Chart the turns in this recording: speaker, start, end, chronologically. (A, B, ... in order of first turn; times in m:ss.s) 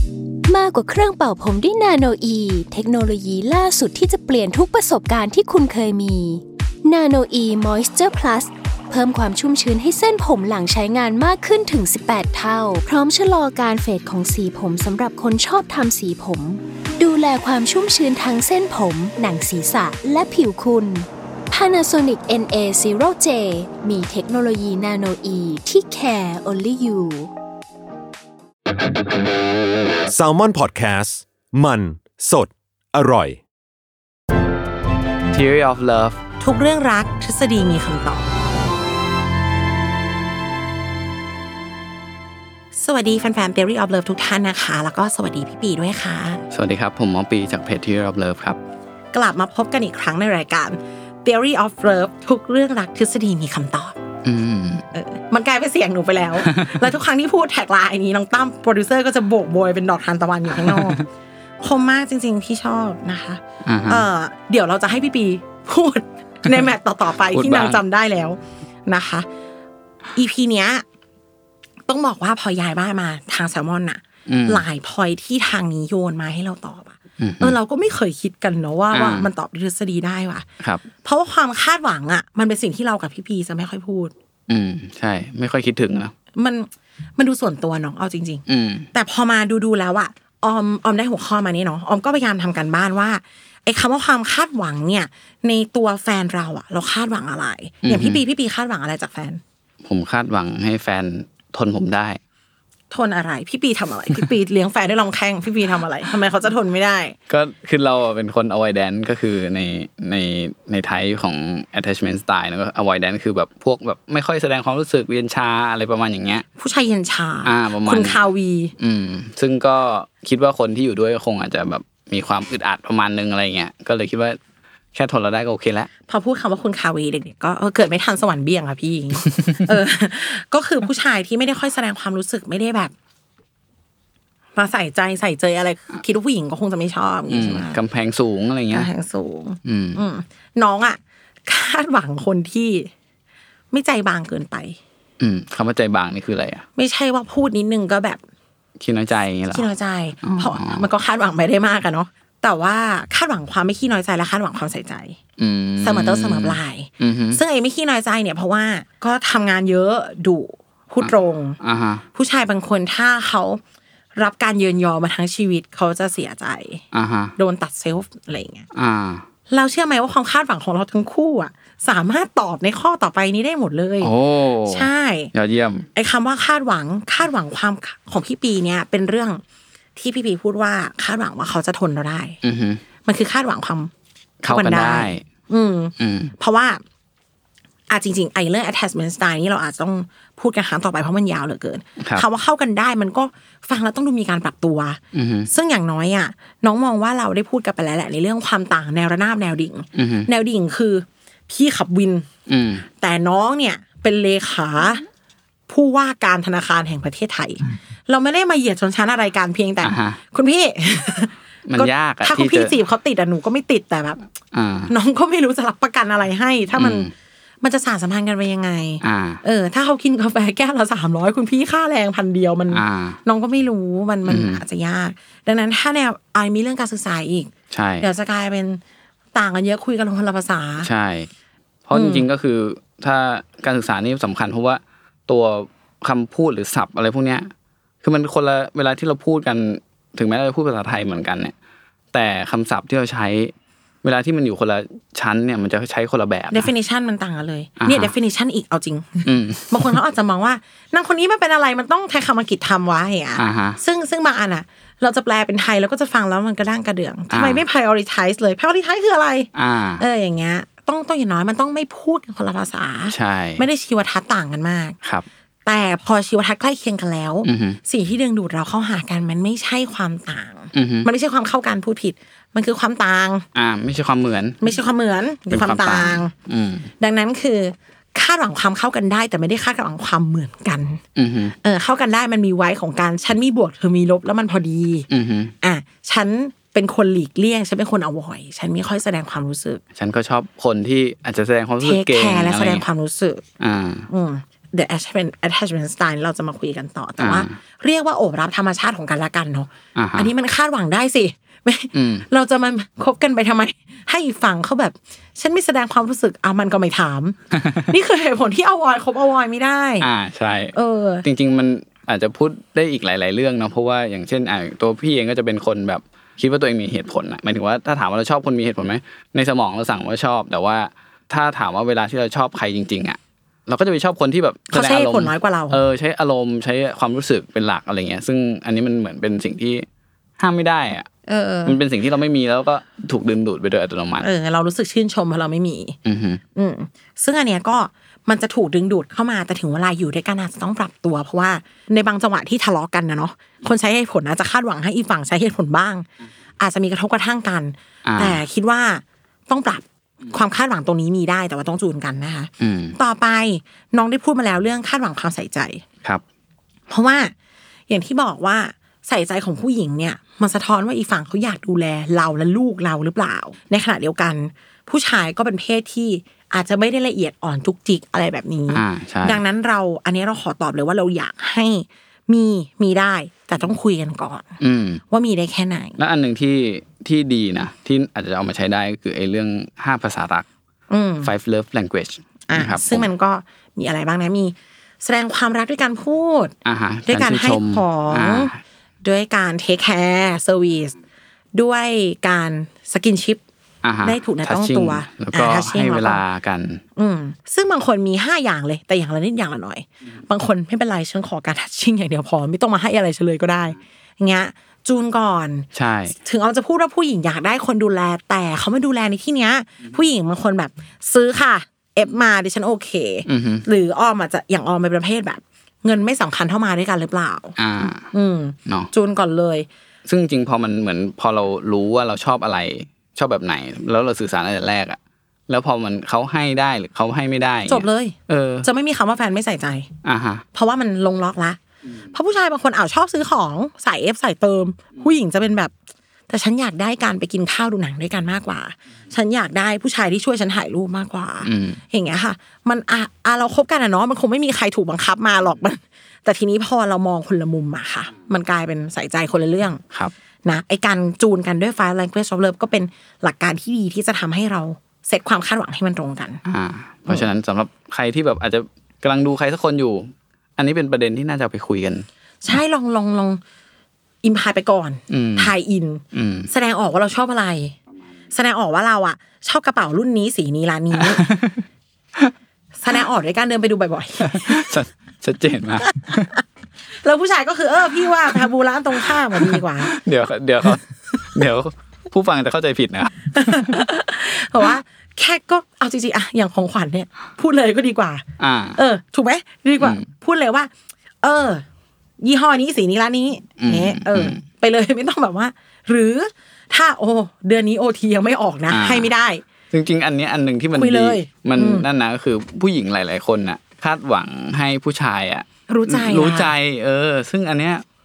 0:00.5-0:27.3 A
0:30.1-0:33.4 B
0:35.3-0:36.2 C
0:36.4-0:38.3 D
0:42.8-0:46.4 D
0:46.5-0:48.6 C
0:49.1-0:54.0 D
0:54.2-0:54.8 C
0:54.9-1:01.0 D
1:01.6-1:09.3 D
1:03.7-1:04.1 C
1:07.3-1:07.8 C
1:10.2-1:10.8 D
1:11.9-1:20.5 D
1:14.3-1:14.6 C
1:17.2-1:17.6 C
1:18.9-1:19.3 C
1:21.0-1:24.1 D
1:24.5-1:26.1 C
1:26.4-1:39.4 D
1:28.5-1:28.9 C
1:37.8-1:38.2 C
1:39.8-1:42.2 C
1:42.9-1:47.2 D
1:47.3-1:56.5 C
1:56.6-1:58.7 D
1:57.4-1:58.2 C
1:58.8-2:04.4 C
2:05.0-2:05.9 C
2:06.1-2:12.9 D
2:14.6-2:17.8 D
2:17.3-2:18.9 C
2:18.7-2:22.9 D
2:19.6-2:20.0 C
2:23.7-2:24.8 D
2:25.2-2:26.6 C
2:26.8-2:28.2 D
2:28.8-2:29.7 C
2:29.5-2:35.2 D
2:30.3-2:30.9 C
2:35.4-2:37.4 C
2:35.8-2:41.6 D
2:41.0-2:42.0 C
2:42.1-2:43.6 D
2:44.2-2:46.8 D
2:46.9-2:47.4 C
2:47.4-2:48.7 D
2:48.7-2:49.2 C
2:49.5-2:54.1 D
2:54.0-2:55.9 C
2:54.7-2:55.3 D
2:56.0-2:59.4 D
3:00.0-3:02.4 D
3:02.4-3:02.8 C
3:03.0-3:03.9 D
3:04.4-3:05.2 C
3:04.5-3:06.8 D
3:06.0-3:06.3 C
3:07.9-3:22.3 D
3:15.1-3:15.5 C
3:20.0-3:20.3 C
3:22.5-3:22.8 C
3:23.0-3:25.0 D
3:25.7-3:34.2 D
3:29.8-3:30.2 C
3:31.7-3:32.7 C
3:34.6-3:34.9 C
3:34.9-3:37.1 D
3:36.8-3:37.1 C
3:37.6-3:48.8 D
3:39.0-3:39.4 C
3:42.7-3:43.2 C
3:44.3-3:44.6 C
3:47.7-3:48.1 C
3:49.3-3:50.9 D
3:50.8-3:51.3 C
3:51.9-3:57.5 C
3:51.9-3:52.3 D
3:58.0-4:01.5 C
4:02.1-4:03.5 C
4:04.0-4:06.7 C
4:06.5-4:25.0 D
4:07.8-4:08.1 C
4:09.3-4:09.7 C
4:13.4-4:13.8 C
4:17.3-4:17.6 C
4:19.6-4:20.0 C
4:23.1-4:23.6 C
4:25.6-4:33.5 D
4:27.4-4:27.8 C
4:30.8-4:31.1 C
4:33.6-4:34.6 C
4:34.6-4:36.3 D
4:35.5-4:36.9 C
4:37.0-4:41.0 D
4:41.2-4:41.5 C
4:41.6-4:45.1 D
4:45.1-4:45.5 C
4:45.6-4:49.8 D
4:50.0-4:52.8 C
4:51.8-4:53.4 D
4:53.6-4:54.1 C
4:54.1-5:10.1 D
4:57.2-4:57.5 C
5:00.0-5:00.3 C
5:02.0-5:02.2 C
5:10.0-5:29.9 C
5:10.7-5:11.3 D
5:24.7-5:25.8 D
5:30.4-5:31.1 C
5:31.3-5:31.8 D
5:31.6-5:34.3 C
5:34.2-5:36.0 D
5:36.1-5:36.4 C
5:36.6-5:46.1 D
5:46.6-5:55.8 D
5:48.0-5:48.4 C
5:52.6-5:52.9 C
5:56.9-5:57.3 D
5:57.9-6:14.5 D
6:08.7-6:09.4 C
6:14.6-6:15.0 C
6:15.1-6:16.0 D
6:16.0-6:20.5 C
6:20.9-6:21.3 D
6:21.2-6:23.1 C
6:22.5-6:26.6 D
6:26.6-6:28.6 C
6:27.1-6:28.5 D
6:29.0-6:31.0 D
6:31.6-6:33.4 D
6:33.8-6:36.8 C
6:34.0-6:36.2 D
6:37.0-6:57.6 D
6:45.8-6:46.1 C
6:53.3-6:53.6 C
6:57.6-6:58.0 C
6:58.1-6:59.7 D
7:00.1-7:05.0 C
7:05.5-7:08.7 C
7:07.7-7:09.9 D
7:10.0-7:10.4 C
7:10.5-7:11.6 D
7:12.1-7:15.7 D
7:16.3-7:29.8 D
7:21.5-7:21.8 C
7:30.4-7:36.4 D
7:36.5-7:42.1 C
7:42.4-7:43.4 D
7:44.2-7:47.8 D
7:45.1-7:45.5 C
7:46.1-7:46.5 C
7:48.3-7:51.2 D
7:51.2-7:51.6 C
7:52.8-7:54.8 D
7:54.2-7:56.3 C
7:57.0-8:00.0 D
8:00.0-8:03.3 C
8:03.3-8:08.2 D
8:08.4-8:08.8 C
8:08.8-8:10.7 D
8:11.2-8:11.6 D
8:12.2-8:19.4 D
8:13.6-8:14.4 C
8:18.7-8:19.1 C
8:19.7-8:27.8 C
8:20.7-8:21.9 D
8:25.7-8:26.5 D